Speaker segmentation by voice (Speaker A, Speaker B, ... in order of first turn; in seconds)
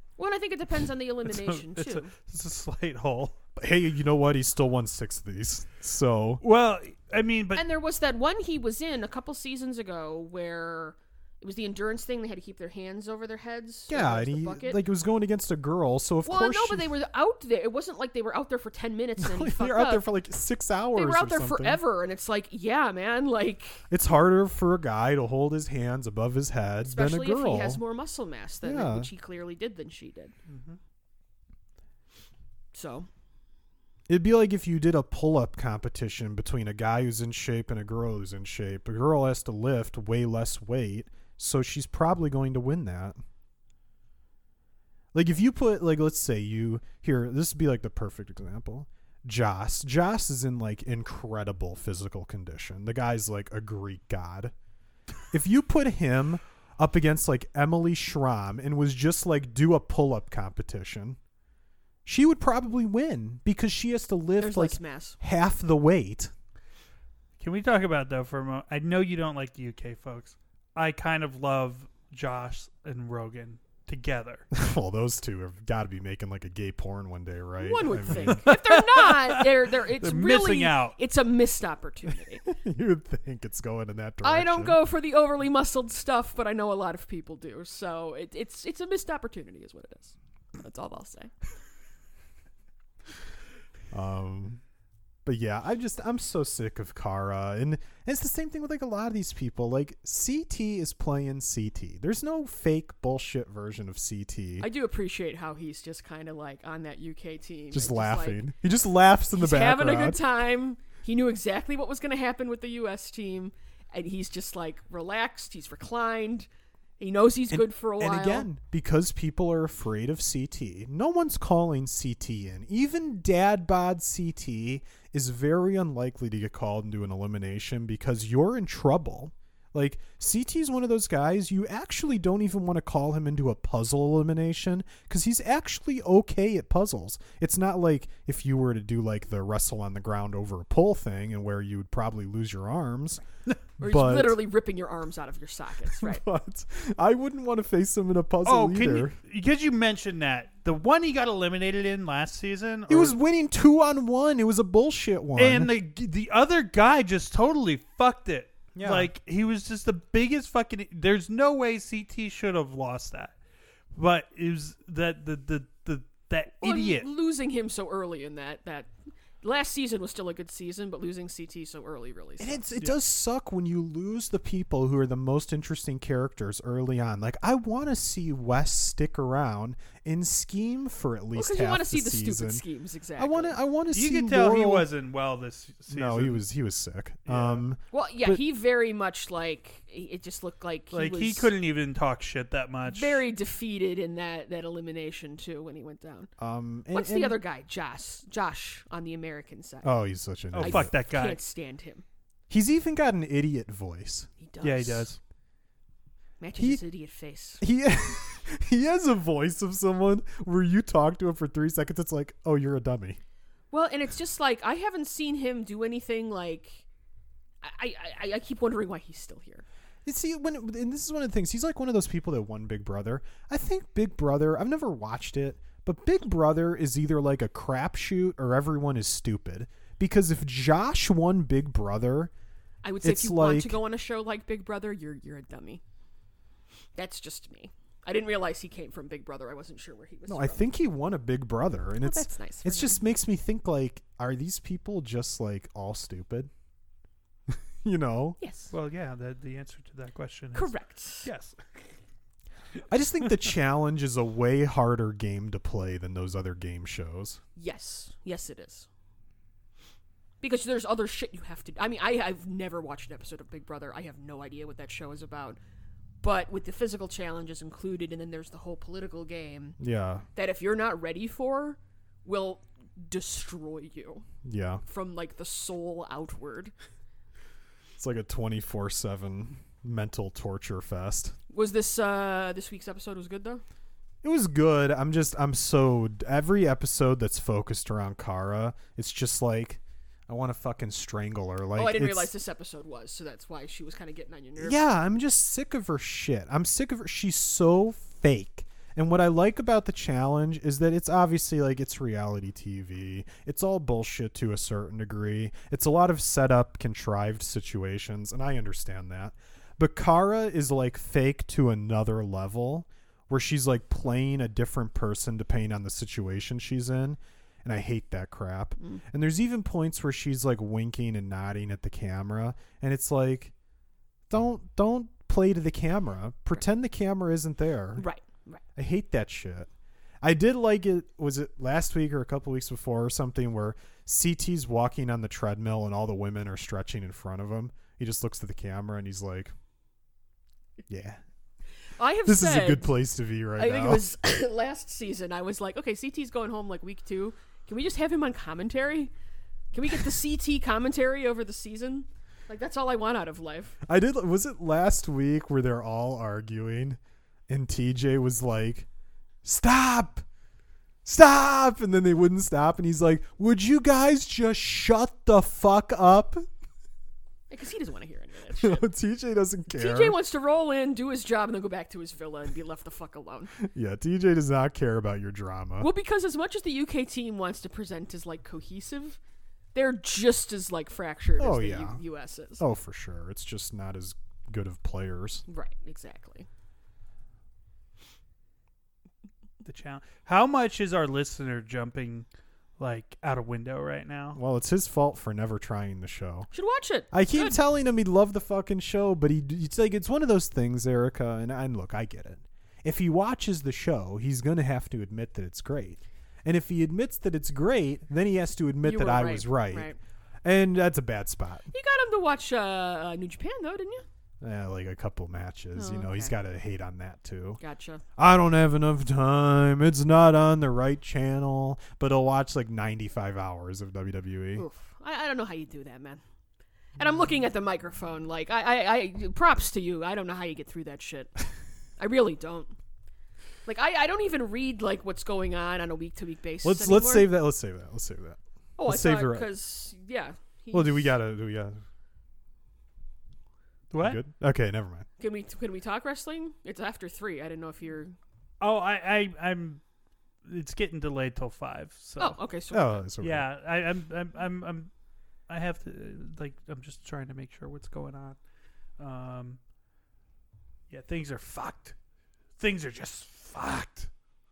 Speaker A: 0.2-2.1, 7.5-14.8, 16.3-20.0, 20.9-23.9, 26.9-30.3, 32.7-33.1, 64.4-65.2, 77.6-82.4, 84.2-91.5, 104.6-108.4, 109.3-116.5, 117.0-118.5, 143.8-146.2, 166.6-172.7, 181.3-183.6, 187.9-191.5, 192.9-196.3, 196.9-199.9, 200.6-202.1, 204.4-205.1, 206.4-207.6, 213.7-216.8, 217.6-219.7, 232.8-235.8, 236.9-240.7, 242.0-243.0, 248.4-248.7, 250.6-251.3, 257.6-258.9, 260.4-265.6, 266.2-269.8, 270.4-274.3, 274.9-276.7, 281.5-283.6, 291.8-294.8, 318.8-319.0, 328.0-328.6, 341.9-342.9, 343.6-349.1, 349.7-353.8, 367.5-368.8, 369.7-373.6, 375.8-379.2, 379.7-382.6, 385.5-386.5, 396.5-397.6, 408.8-410.0, 411.7-414.1, 415.8-416.3, 417.6-418.0, 424.6-426.2, 427.0-431.5, 432.0-432.8, 433.6-437.3, 438.8-441.1, 445.2-448.2, 452.2-453.0
Speaker B: 1.3-3.4, 6.4-7.6, 30.5-30.8, 67.4-74.5, 78.1-78.7, 80.0-81.0, 148.4-153.2, 155.4-163.4, 163.9-167.1, 183.9-186.4, 187.3-187.7, 190.9-193.2, 200.5-201.4, 204.6-205.2, 248.7-251.9, 389.6-392.3, 392.8-394.4, 443.9-444.2, 448.6-449.9, 450.4-452.4, 453.2-459.6, 460.9-462.0, 462.5-464.1
Speaker C: 3.6-6.4, 13.9-16.9, 19.2-21.8, 23.9-27.8, 28.6-29.1, 34.1-43.2, 45.1-54.5, 55.3-61.2, 62.0-66.3, 74.5-78.4, 82.5-84.8, 93.9-94.6, 95.2-104.7, 107.7-110.2, 117.5-143.2, 143.8-144.4, 145.9-149.2, 152.9-155.7, 158.8-159.1, 172.4-182.6, 183.2-184.9, 185.9-188.4, 196.4-197.4, 199.8-200.9, 202.5-204.4, 206.6-206.8, 207.6-213.2, 220.1-232.3, 233.0-233.8, 240.3-246.5, 247.5-248.4, 252.9-257.4, 269.8-270.3, 274.4-274.8, 278.0-281.4, 284.2-292.3, 294.6-323.5, 324.3-328.1, 328.8-339.5, 340.9-341.2, 342.2-344.0, 353.8-358.9, 359.4-360.2, 361.1-366.5, 368.6-370.2, 373.6-375.9, 381.4-382.0, 382.6-385.4, 394.4-396.5, 397.1-409.9, 410.4-411.7, 414.4-417.6, 418.2-424.7, 436.6-439.5, 440.7-441.8, 444.0-445.1, 452.7-453.5